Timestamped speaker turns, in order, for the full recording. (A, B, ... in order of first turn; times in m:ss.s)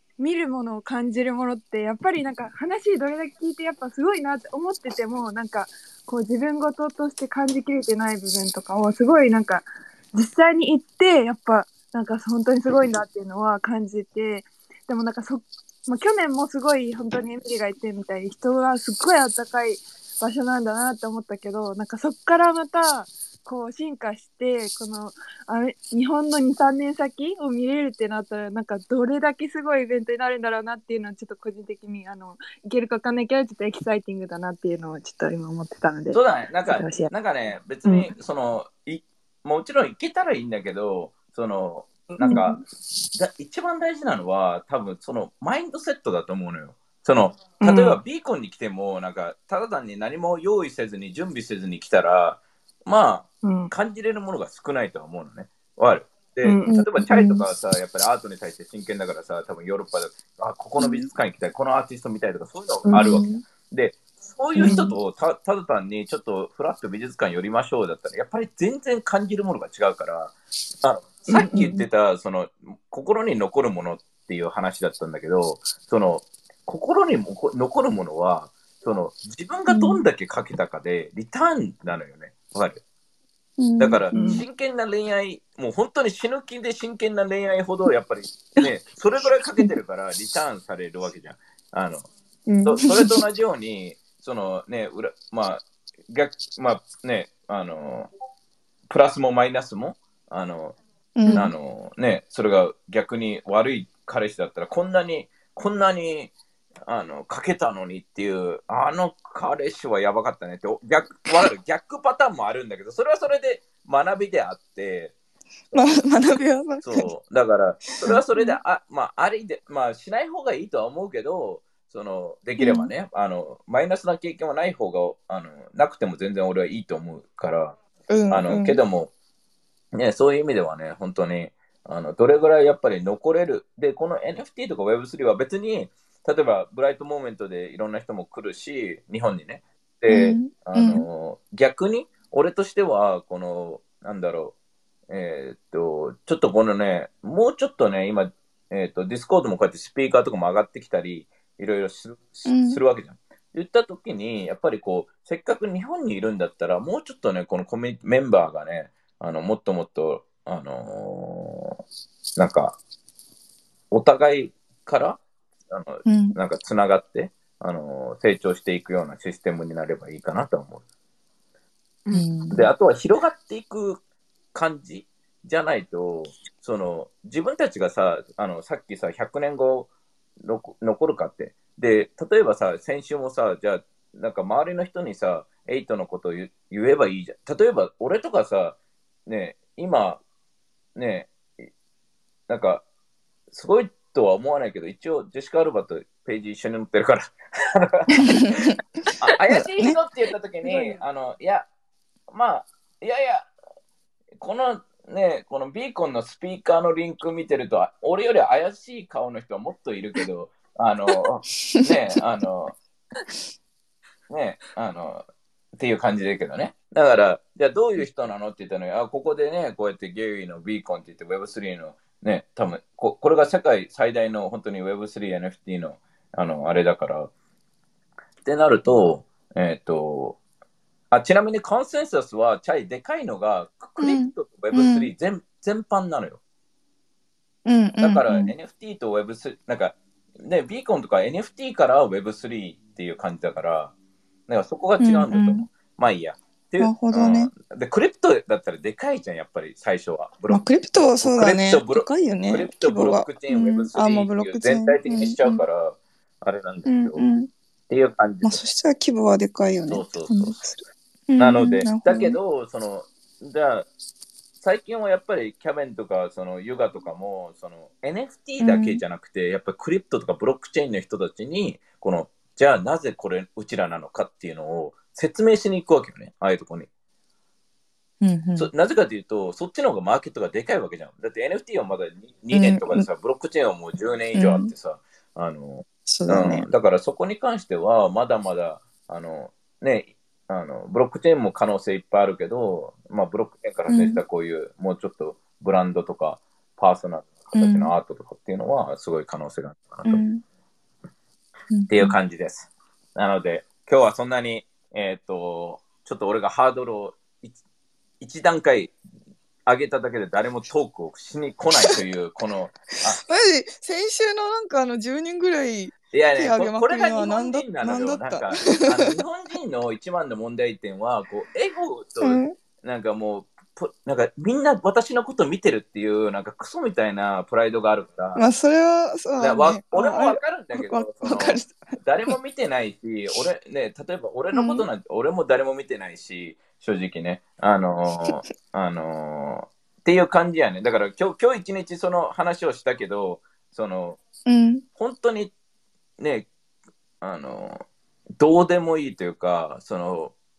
0:00.2-0:37.1 A
0:36.1-0:42.6 B
0:37.8-0:38.1 A
0:42.2-0:42.6 A
0:43.1-1:22.8 B
0:47.6-0:48.0 A
0:53.4-0:53.7 A
0:56.4-0:56.8 A
0:56.7-0:57.4 C
1:02.8-1:03.4 A
1:04.6-1:04.9 A
1:04.6-1:04.9 C
1:11.3-1:11.8 A
1:19.7-1:20.0 C
1:23.6-1:24.4 C
1:23.8-1:32.1 B
1:24.1-1:24.4 A
1:32.5-1:32.8 A
1:32.6-1:38.1 B
1:38.9-1:40.8 B
1:41.2-1:41.5 C
1:41.3-1:46.3 B
1:46.9-1:55.1 B
1:55.7-1:56.0 B
1:55.7-1:57.1 C
1:56.8-2:07.8 B
1:58.0-1:58.6 C
2:02.6-2:02.9 C
2:08.1-2:08.8 C
2:08.3-2:09.1 B
2:09.9-2:24.5 B
2:20.1-2:21.0 C
2:25.1-2:41.8 B
2:32.4-2:32.8 C
2:42.4-2:42.8 B
2:43.9-2:50.8 B
2:46.0-2:46.4 C
2:52.1-2:52.7 C
2:52.5-2:54.0 B
2:54.5-2:59.9 B
3:00.4-3:10.2 B
3:11.0-3:11.3 B
3:12.5-3:12.8 B
3:13.5-3:21.7 B
3:18.2-3:18.7 C
3:20.6-3:21.0 A
3:22.3-3:23.5 B
3:24.4-3:32.7 B
3:34.3-3:35.2 B
3:35.8-3:47.3 B
3:48.4-3:50.4 B
3:51.1-3:56.4 B
3:54.0-3:55.1 C
3:57.6-3:58.5 C
3:58.0-4:03.9 B
4:04.5-4:17.2 B
4:05.0-4:05.7 C
4:06.8-4:07.5 C
4:10.5-4:15.6 C
4:16.8-4:17.5 C
4:17.9-4:18.6 B
4:18.4-4:22.4 C
4:19.9-4:20.6 B
4:21.4-4:23.9 B
4:24.6-4:36.9 B
4:28.6-4:29.0 C
4:38.2-4:38.7 C
4:38.5-5:00.2 B
4:42.5-4:43.0 C
4:44.3-4:44.7 C
4:46.0-4:46.7 C
4:53.9-4:54.2 C
4:57.5-4:57.9 C
5:00.0-5:00.4 C
5:01.7-5:02.2 C
5:01.9-5:07.6 B
5:08.2-5:08.9 B
5:09.6-5:13.2 B
5:13.1-5:19.1 C
5:16.1-5:28.4 B
5:22.2-5:22.6 C
5:28.3-5:32.3 C
5:29.4-5:44.2 B
5:34.5-5:34.8 C
5:44.4-5:44.8 C
5:45.0-5:45.5 B
5:46.2-5:46.5 B
5:47.2-5:47.8 B
5:48.4-5:50.3 B